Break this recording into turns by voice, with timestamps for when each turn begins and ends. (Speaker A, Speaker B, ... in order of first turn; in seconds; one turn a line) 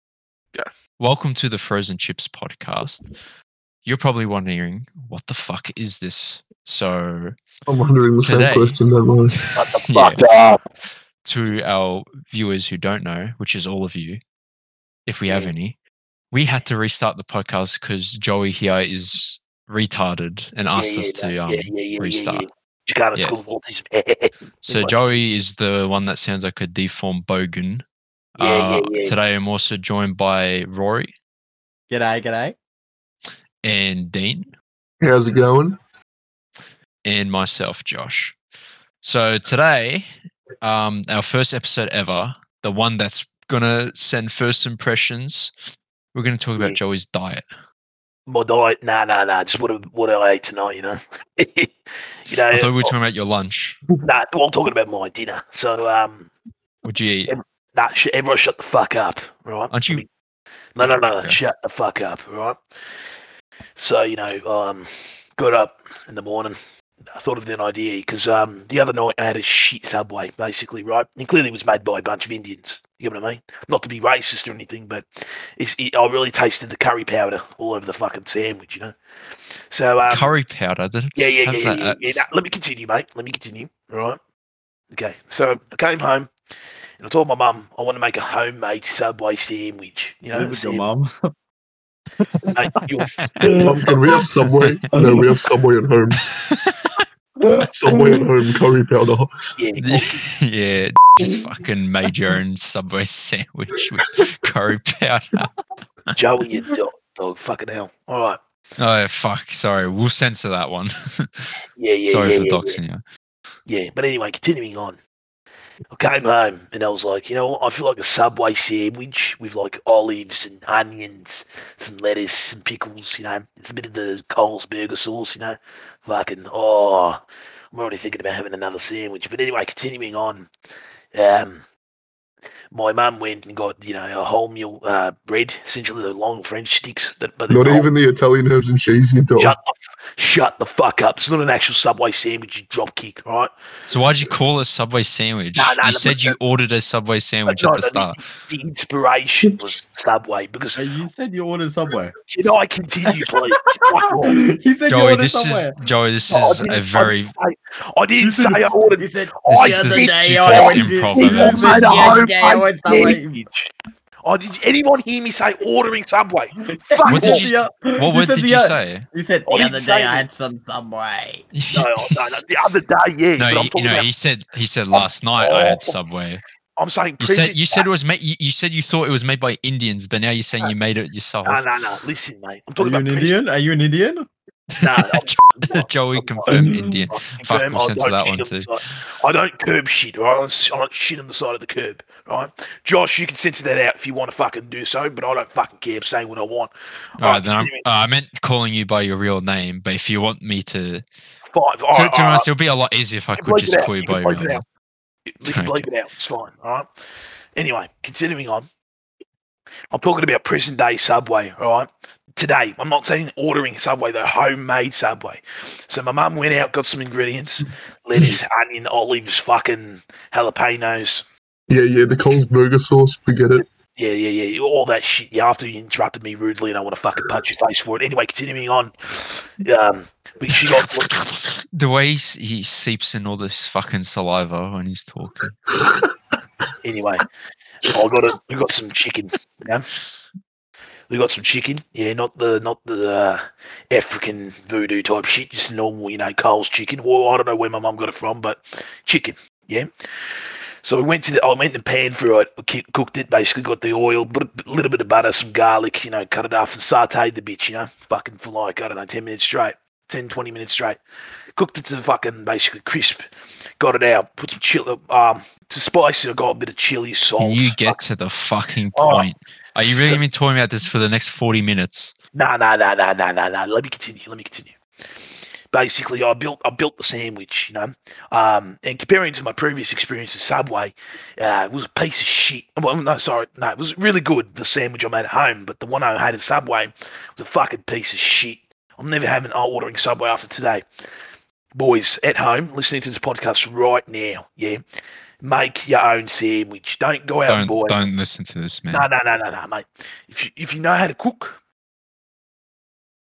Speaker A: 1.0-3.2
Speaker A: 3.8-7.3
Speaker B: 7.7-9.4
Speaker A: 8.2-8.8
Speaker A: 9.4-10.2
Speaker C: 9.5-10.6
Speaker A: 10.8-14.2
Speaker A: 15.1-15.8
Speaker C: 15.3-15.5
Speaker A: 16.3-22.4
Speaker C: 20.7-25.0
Speaker A: 24.6-27.8
Speaker A: 28.4-31.1
Speaker C: 28.4-29.2
Speaker D: 31.9-32.6
Speaker A: 33.6-34.5
Speaker B: 35.0-35.8
Speaker A: 37.0-38.4
Speaker A: 39.0-40.1
Speaker A: 40.6-45.5
Speaker A: 46.1-47.5
Speaker C: 48.3-52.9
Speaker A: 52.5-53.8
Speaker C: 54.0-56.3
Speaker A: 56.8-57.4
Speaker C: 57.3-60.1
Speaker A: 59.7-60.0
Speaker C: 60.7-62.6
Speaker A: 60.8-61.4
Speaker C: 63.8-66.6
Speaker C: 67.1-75.0
Speaker C: 75.6-78.9
Speaker C: 79.7-80.3
Speaker A: 80.0-82.2
Speaker C: 81.2-84.2
Speaker C: 84.9-86.3
Speaker C: 87.0-90.9
Speaker D: 90.3-91.3
Speaker D: 92.2-92.4
Speaker C: 92.5-93.1
Speaker A: 93.2-93.5
Speaker D: 93.4-93.8
Speaker B: 93.5-96.2
Speaker D: 94.9-95.3
Speaker A: 96.3-97.0
Speaker D: 97.4-98.3
Speaker B: 97.4-99.3
Speaker C: 99.6-100.2
Speaker A: 99.8-105.5
Speaker C: 106.1-108.4
Speaker A: 108.8-111.5
Speaker C: 111.8-112.8
Speaker A: 112.1-113.0
Speaker C: 113.7-115.0
Speaker C: 115.9-130.5
Speaker C: 131.1-131.7
Speaker C: 132.7-137.9
Speaker B: 137.5-139.6
Speaker C: 139.4-143.5
Speaker A: 143.9-148.3
Speaker C: 145.6-146.4
Speaker C: 147.5-150.8
Speaker D: 150.7-152.1
Speaker C: 152.3-154.4
Speaker D: 154.3-155.7
Speaker A: 154.9-157.3
Speaker C: 156.3-163.7
Speaker D: 158.2-163.4
Speaker A: 159.5-162.3
Speaker C: 164.2-167.5
Speaker D: 166.6-171.5
Speaker A: 167.1-169.0
Speaker C: 169.5-170.3
Speaker A: 171.5-172.1
Speaker C: 171.7-174.1
Speaker A: 173.4-176.4
Speaker C: 174.9-176.0
Speaker C: 176.8-177.8
Speaker A: 177.2-181.6
Speaker C: 181.4-183.4
Speaker D: 182.8-184.2
Speaker C: 184.8-197.8
Speaker A: 185.0-188.7
Speaker D: 186.5-186.9
Speaker A: 197.2-201.0
Speaker C: 201.4-202.5
Speaker A: 201.9-204.6
Speaker C: 203.4-204.6
Speaker C: 205.2-206.9
Speaker A: 205.4-205.9
Speaker C: 207.6-208.7
Speaker C: 209.9-221.2
Speaker B: 221.7-223.6
Speaker C: 223.5-231.1
Speaker A: 230.5-235.5
Speaker C: 236.8-237.2
Speaker C: 237.8-239.9
Speaker C: 241.1-249.9
Speaker C: 250.8-261.0
Speaker C: 261.6-263.2
Speaker C: 263.8-268.0
Speaker A: 267.4-272.1
Speaker C: 268.9-270.2
Speaker C: 272.3-290.8
Speaker C: 291.7-294.8
Speaker C: 295.4-298.1
Speaker A: 297.5-299.1
Speaker C: 298.9-301.6